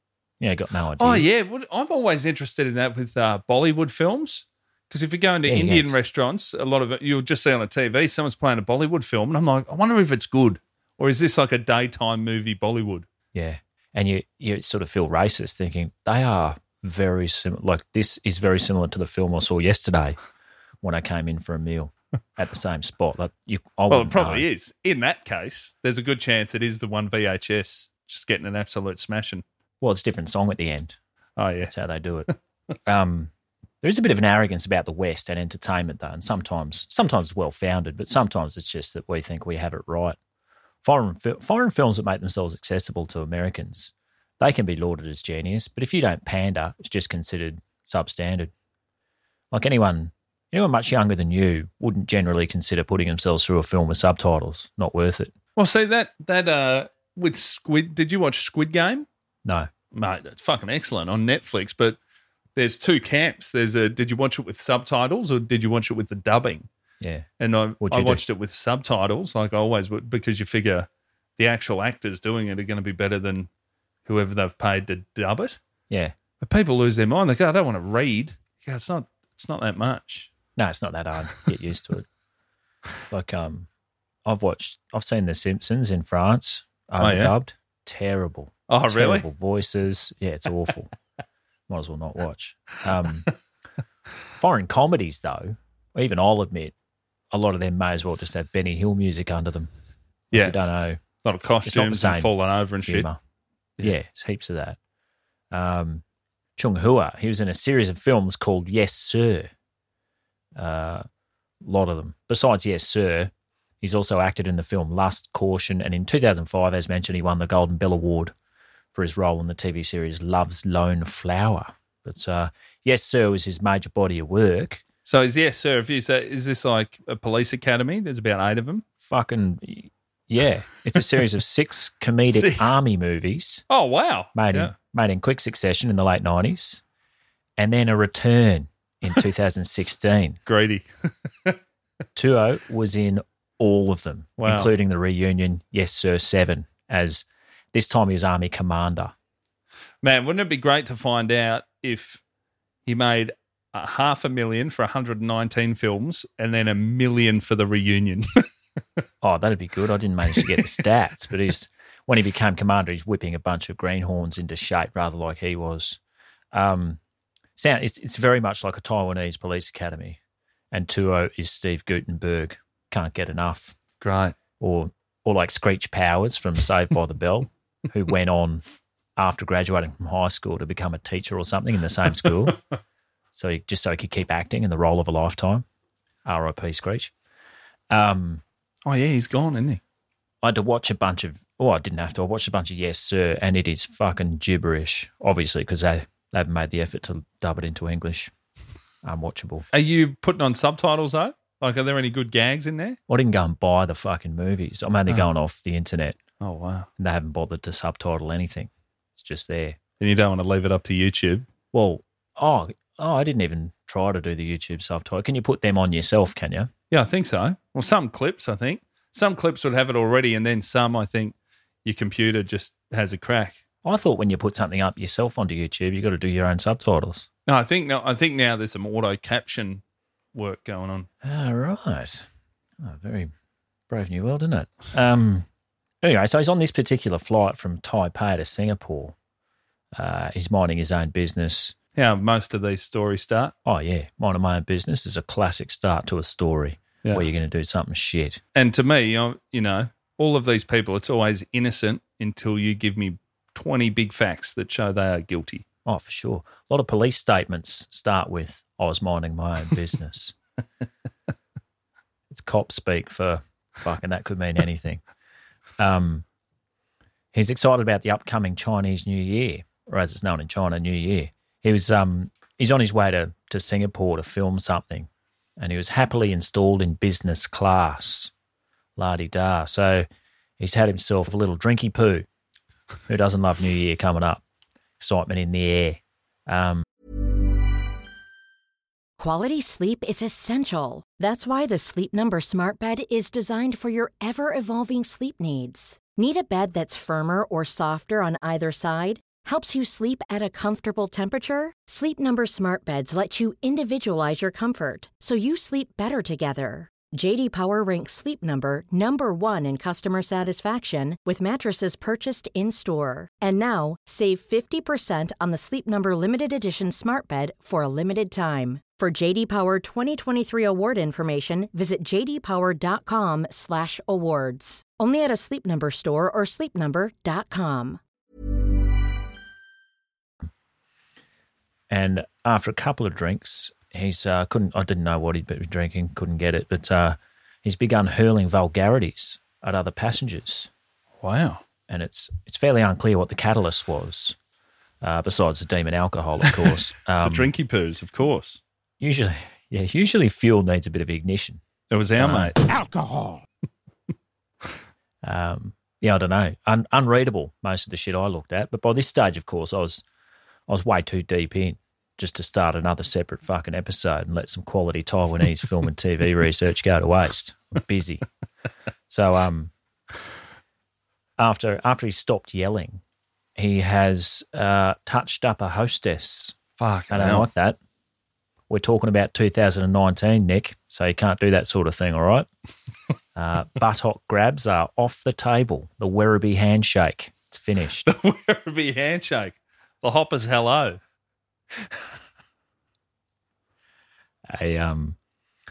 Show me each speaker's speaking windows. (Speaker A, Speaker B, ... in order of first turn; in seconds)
Speaker A: 0.4-1.2, 5.5-6.0, 13.3-20.2, 20.8-24.4, 29.8-31.0, 31.7-32.3, 32.9-33.3, 33.8-40.2, 40.8-48.5, 49.5-55.3, 59.4-59.7, 67.0-67.3, 67.8-68.2, 80.6-82.0, 83.1-83.7, 84.2-90.9, 91.7-93.3, 94.3-96.7, 97.3-99.7, 100.3-101.0, 101.6-103.2, 103.8-104.8, 105.5-106.0, 106.6-109.5, 110.5-111.0, 111.6-118.3, 118.9-124.8, 129.0-133.6, 134.3-136.8, 137.6-140.4, 142.2-149.1, 159.2-166.0, 166.5-167.0, 167.6-170.2, 170.7-173.8, 174.6-178.6, 179.2-182.6, 183.3-185.6, 186.2-187.1, 187.9-188.4, 190.4-198.3, 199.0-199.7, 203.1-206.2, 207.0-209.8, 211.7-216.7, 223.8-227.3, 231.2-232.2, 232.8-233.3, 233.9-235.4, 236.0-239.1, 239.9-241.7, 243.6-248.4, 255.8-260.3, 262.3-265.0, 265.8-266.2, 267.3-278.3, 279.0-280.1, 280.6-282.3, 283.1-284.4, 285.0-286.8, 331.9-340.7, 341.9-344.4, 345.0-347.5, 349.0-351.6, 352.2-352.6, 355.2-360.0, 360.7-368.2, 369.1-369.7, 371.4-373.0, 373.6-376.6, 377.1-377.8, 378.7-382.5, 383.3-388.1, 394.5-395.2
Speaker B: 1.0-13.1, 23.9-29.4, 31.4-31.7, 55.5-59.1, 59.9-62.0, 62.5-66.7, 67.4-73.5, 74.0-75.6, 76.4-80.3, 87.0-87.3, 88.7-89.2, 101.2-103.1, 125.0-128.8, 132.3-132.8, 133.7-134.7, 140.4-141.6, 144.4-144.7, 150.0-152.2, 152.8-158.4, 174.0-174.3, 188.8-189.8, 199.7-203.0, 206.4-206.9, 210.0-211.5, 216.9-223.6, 227.5-229.8, 230.3-231.1, 241.9-243.5, 248.5-255.6, 341.2-341.6, 347.2-348.6, 351.9-352.6, 376.8-377.5, 388.0-391.0
Speaker C: 289.2-328.0